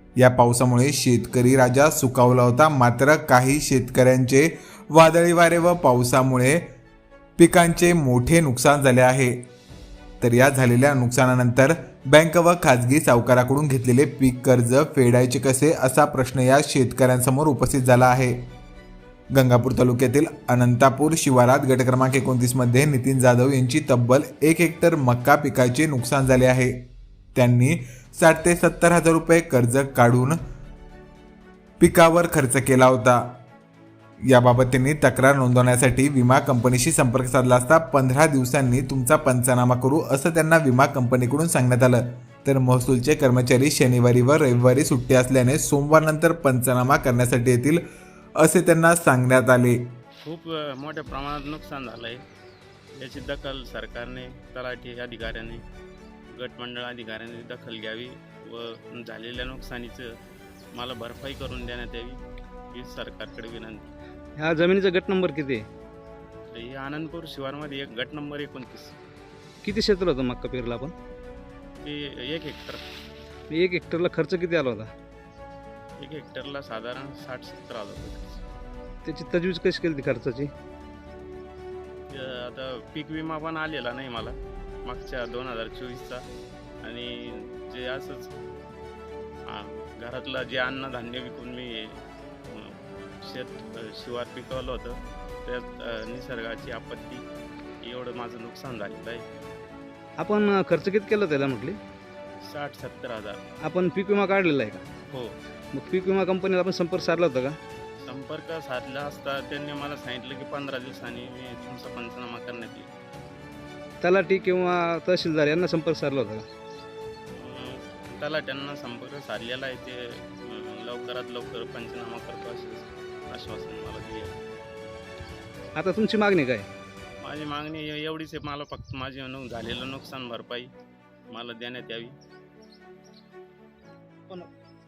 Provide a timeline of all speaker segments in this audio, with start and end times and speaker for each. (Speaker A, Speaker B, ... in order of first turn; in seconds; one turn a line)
Speaker A: 0.2-6.6
Speaker A: 7.4-9.3
Speaker A: 10.2-18.4
Speaker A: 19.3-26.8
Speaker A: 27.4-30.4
Speaker A: 31.8-33.2
Speaker A: 34.3-47.8
Speaker A: 48.4-49.8
Speaker B: 50.2-52.2
Speaker B: 53.0-55.6
Speaker B: 56.3-60.1
Speaker B: 60.7-63.9
Speaker C: 64.4-65.6
Speaker B: 66.5-69.0
Speaker C: 69.6-70.9
Speaker B: 71.8-72.8
Speaker C: 73.5-74.9
Speaker B: 76.0-78.4
Speaker C: 79.0-80.5
Speaker B: 82.1-86.2
Speaker B: 86.8-88.3
Speaker B: 89.5-97.2
Speaker B: 97.8-99.2
Speaker C: 100.2-101.8
Speaker B: 102.4-103.4
Speaker C: 103.6-104.8
Speaker C: 105.7-107.6
Speaker B: 108.1-112.9
Speaker C: 114.0-116.4
Speaker B: 117.4-124.3
Speaker C: 125.8-126.7
Speaker B: 127.2-130.7
Speaker B: 131.3-132.2